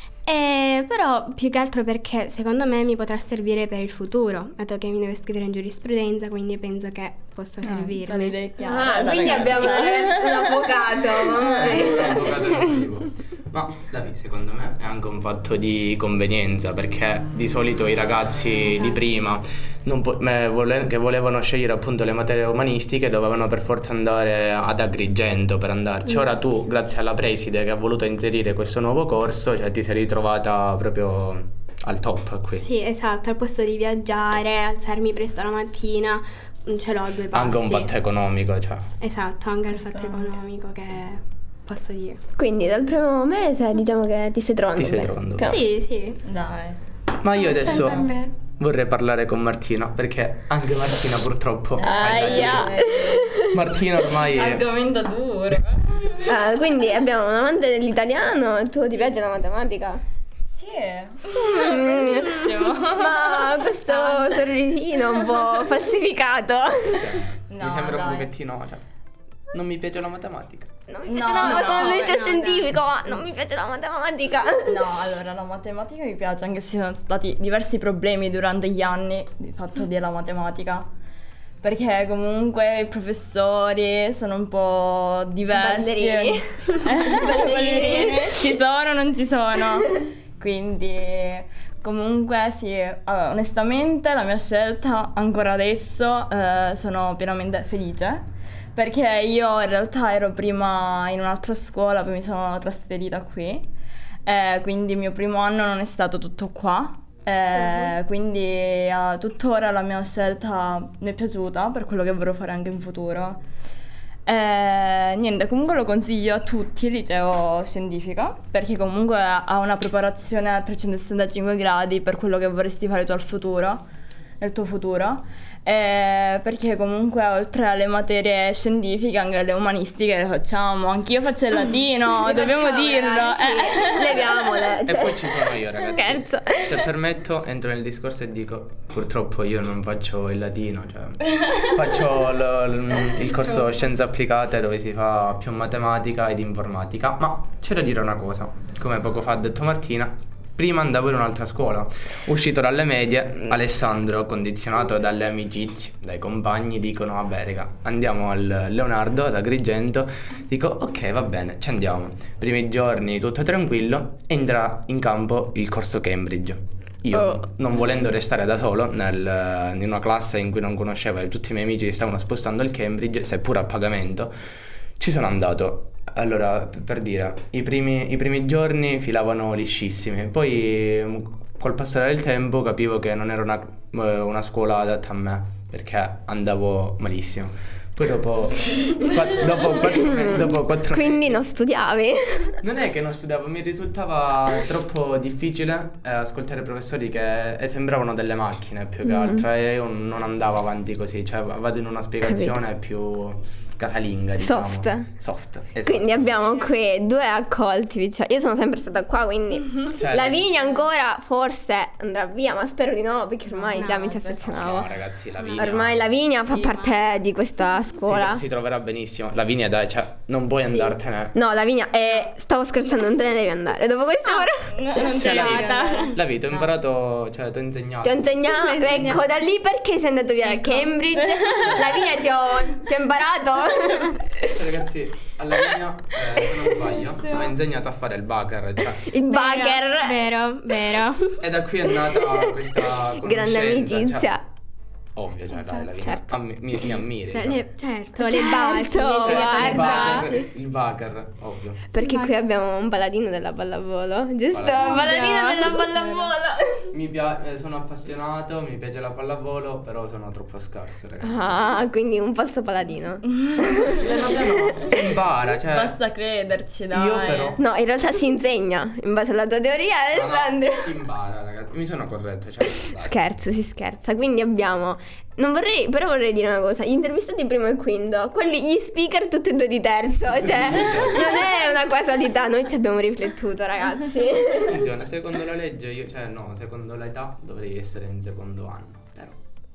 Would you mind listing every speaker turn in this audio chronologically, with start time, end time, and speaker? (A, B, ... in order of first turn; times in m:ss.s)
0:00.2-0:08.4 A
0:07.6-0:12.1 B
0:08.5-0:12.4 C
0:09.2-0:09.4 D
0:11.5-0:32.7 D
0:12.4-0:12.6 A
0:26.1-0:26.5 A
0:32.6-0:37.9 A
0:37.3-0:38.9 D
0:39.0-0:42.2 A
0:39.7-0:40.3 B
0:42.4-0:45.6 C
0:44.7-0:45.6 D
0:45.4-0:46.2 A
0:46.2-0:46.8 B
0:47.2-0:52.8 D
0:47.3-0:48.3 A
0:51.8-0:53.3 B
0:51.8-0:53.6 C
0:53.4-0:54.6 D
0:54.2-0:56.3 B
0:56.2-1:00.0 C
1:00.5-1:04.4 B
1:01.3-1:07.2 C
1:06.9-1:08.8 D
1:07.5-1:08.3 B
1:09.5-1:10.7 D
1:10.9-1:14.8 C
1:11.0-1:12.2 B
1:11.4-1:12.7 A
1:14.6-1:20.9 B
1:21.6-1:38.2 B
1:25.5-1:28.4 C
1:38.7-1:43.6 B
1:44.2-1:53.4 B
1:54.2-2:03.8 B
2:04.4-2:14.3 B
2:12.2-2:16.9 C
2:14.8-2:54.4 D
2:47.1-2:47.4 C
2:55.0-3:11.4 D
3:09.8-3:12.6 C
3:12.6-3:26.4 D
3:19.0-3:19.4 C
3:22.2-3:22.6 C
3:24.4-3:25.1 C
3:25.8-3:34.9 C
3:29.9-3:30.4 D
3:33.6-3:34.4 A
3:34.3-3:36.1 D
3:35.4-3:35.7 A
3:35.6-3:38.4 C
3:38.0-3:41.3 D
3:41.3-3:44.7 C
3:44.3-3:46.2 A
3:44.6-3:46.7 B
3:45.0-3:48.3 D
3:48.0-3:54.6 C
3:48.5-3:49.2 A
3:51.4-3:51.7 B
3:54.4-3:59.1 D
3:56.4-3:56.9 C
3:58.9-4:00.2 C
3:59.2-4:01.4 A
4:01.4-4:04.3 D
4:02.1-4:04.4 C
4:05.2-4:07.6 D
4:05.5-4:06.4 C
4:07.3-4:10.5 A
4:08.2-4:10.3 C
4:09.2-4:11.8 D
4:11.9-4:16.9 C
4:12.0-4:12.3 A
4:14.5-4:15.2 D
4:14.8-4:15.9 A
4:15.9-4:16.3 B
4:16.9-4:21.7 D
4:21.2-4:25.0 C
4:23.9-4:25.9 D
4:25.7-4:27.6 B
4:26.9-4:27.6 D
4:27.6-4:30.9 C
4:30.1-4:33.2 D
4:33.0-4:44.8 C
4:40.3-4:41.5 D
4:44.5-4:49.4 D